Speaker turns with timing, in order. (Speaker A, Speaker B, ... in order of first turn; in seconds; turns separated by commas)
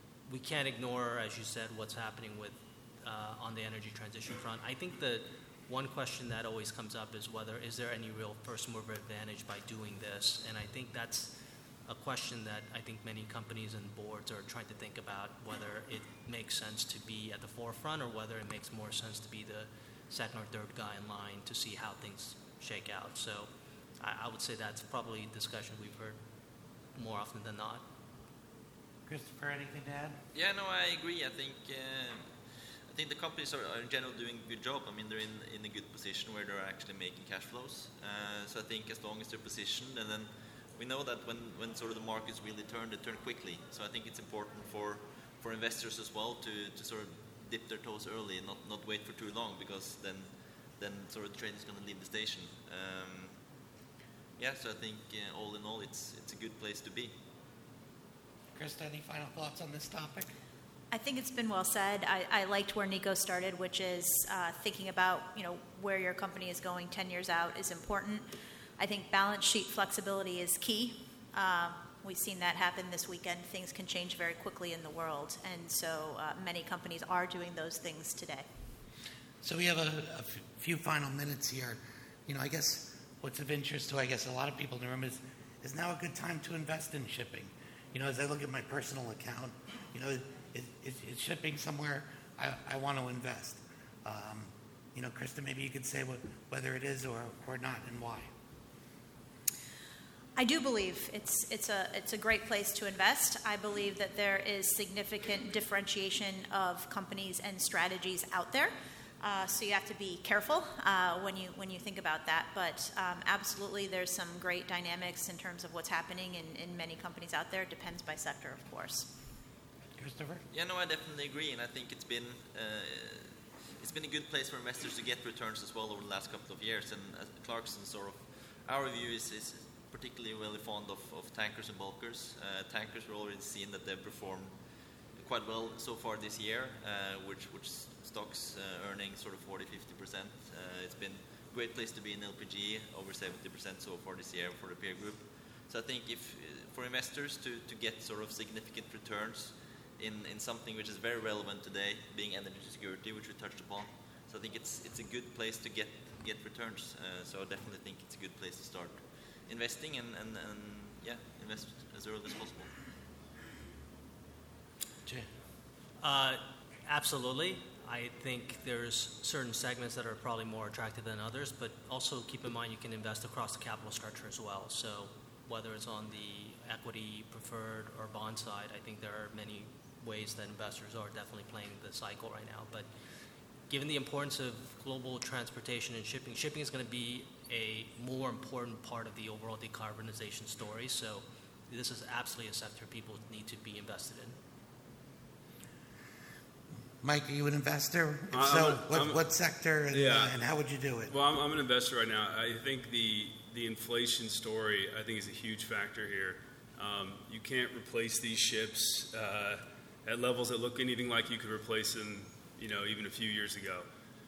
Speaker A: 0.3-11.3, Speaker A: 11.8-23.5, Speaker A: 24.0-26.2, Speaker A: 26.9-27.8, Speaker B: 29.1-30.2, Speaker C: 30.3-32.3, Speaker C: 32.9-53.3, Speaker C: 54.4-57.1, Speaker B: 58.5-60.3, Speaker D: 60.9-68.2, Speaker D: 68.8-78.5, Speaker B: 79.4-98.3, Speaker D: 100.4-119.1, Speaker B: 120.0-120.4, Speaker C: 120.5-134.5, Speaker C: 135.2-162.7, Speaker A: 166.0-182.9, Speaker A: 183.7-194.3, Speaker B: 197.0-201.1, Speaker E: 198.3-199.2, Speaker E: 199.9-200.3, Speaker E: 201.1-213.9